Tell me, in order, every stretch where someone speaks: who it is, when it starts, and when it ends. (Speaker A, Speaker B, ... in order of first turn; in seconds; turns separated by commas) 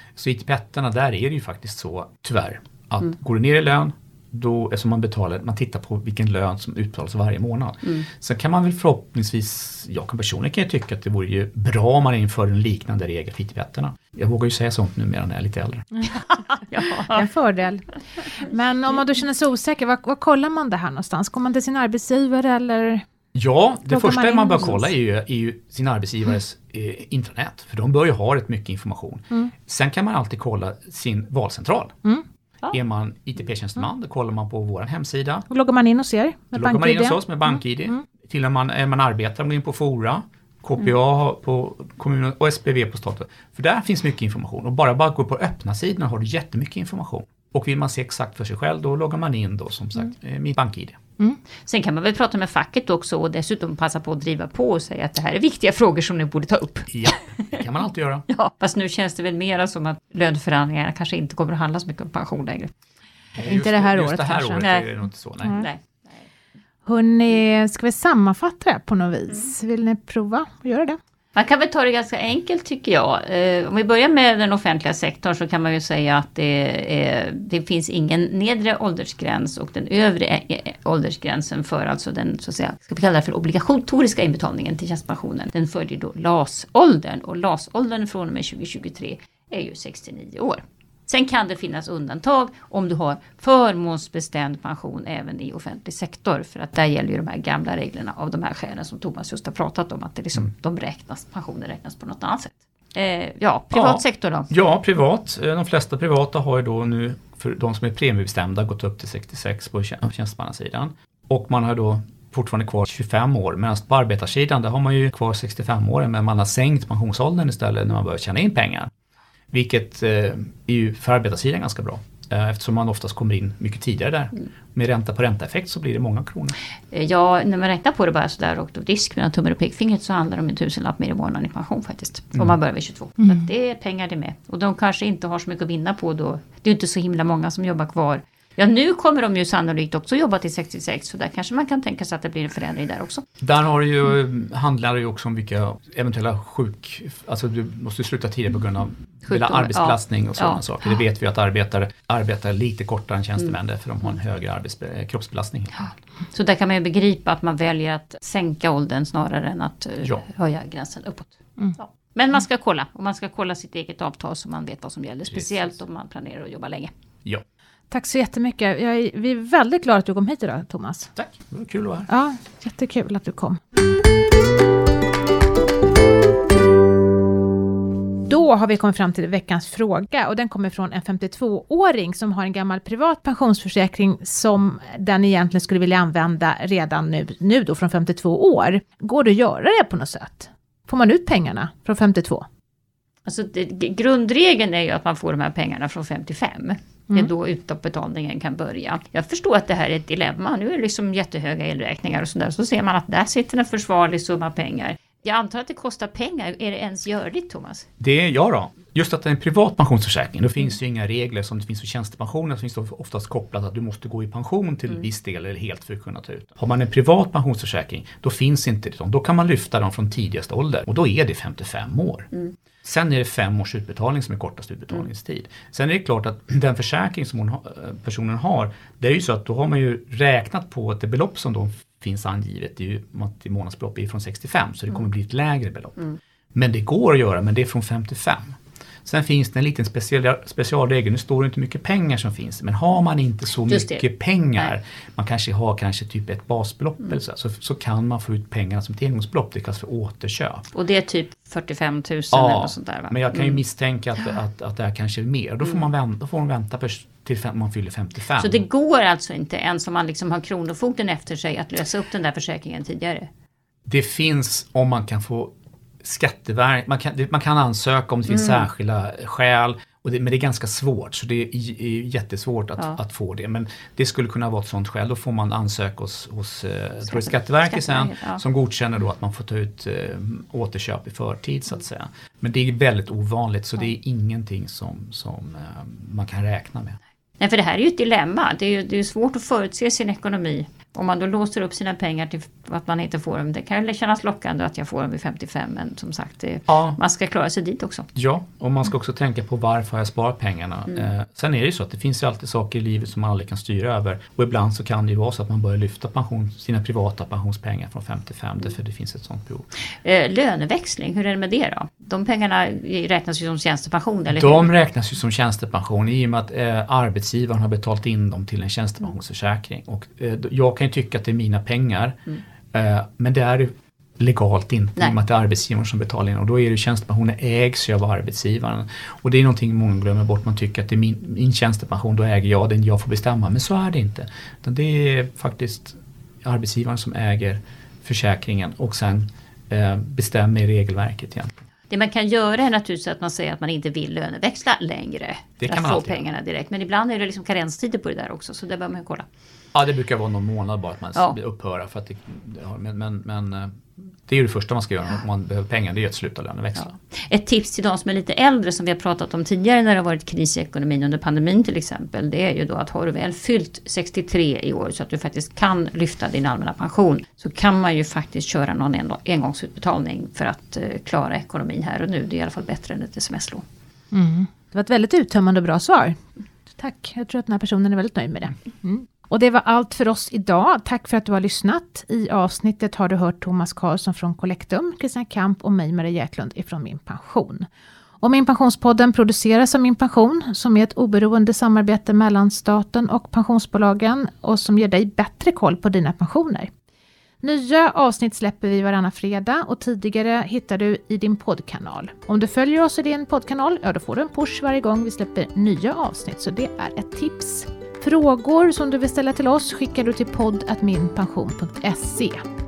Speaker A: 0.1-16.0, Speaker B: 16.6-17.2, Speaker C: 16.9-23.1, Speaker A: 23.3-31.9, Speaker C: 23.9-24.9, Speaker A: 32.7-35.5, Speaker C: 35.5-38.0, Speaker A: 36.5-51.0, Speaker B: 51.6-57.6, Speaker A: 56.9-58.3, Speaker B: 58.3-62.7, Speaker A: 63.4-65.7, Speaker C: 63.4-64.6, Speaker B: 64.6-64.9, Speaker B: 65.5-66.2, Speaker C: 66.8-71.0, Speaker B: 71.3-104.5, Speaker A: 103.7-118.9, Speaker A: 119.5-126.5, Speaker B: 126.9-143.2, Speaker A: 143.4-155.9, Speaker B: 149.3-150.6, Speaker B: 156.3-166.9, Speaker A: 165.3-165.7, Speaker C: 167.9-171.1, Speaker A: 171.2-172.1, Speaker C: 172.1-173.6, Speaker C: 178.3-192.4, Speaker B: 193.2-207.9, Speaker A: 208.0-222.3, Speaker A: 222.8-250.7, Speaker B: 243.7-244.0, Speaker B: 250.7-253.6, Speaker A: 252.3-258.6, Speaker B: 258.4-263.3, Speaker A: 263.9-287.0, Speaker B: 268.3-268.7, Speaker B: 277.1-278.4, Speaker B: 287.4-298.1, Speaker A: 296.7-297.0, Speaker A: 298.1-309.7, Speaker B: 310.0-314.7, Speaker A: 314.3-322.2, Speaker A: 322.7-341.5, Speaker B: 341.9-349.2, Speaker A: 345.6-346.2, Speaker A: 349.7-356.9, Speaker B: 357.1-373.6, Speaker C: 374.1-376.2, Speaker C: 376.8-387.7, Speaker C: 388.2-396.7, Speaker C: 397.4-412.4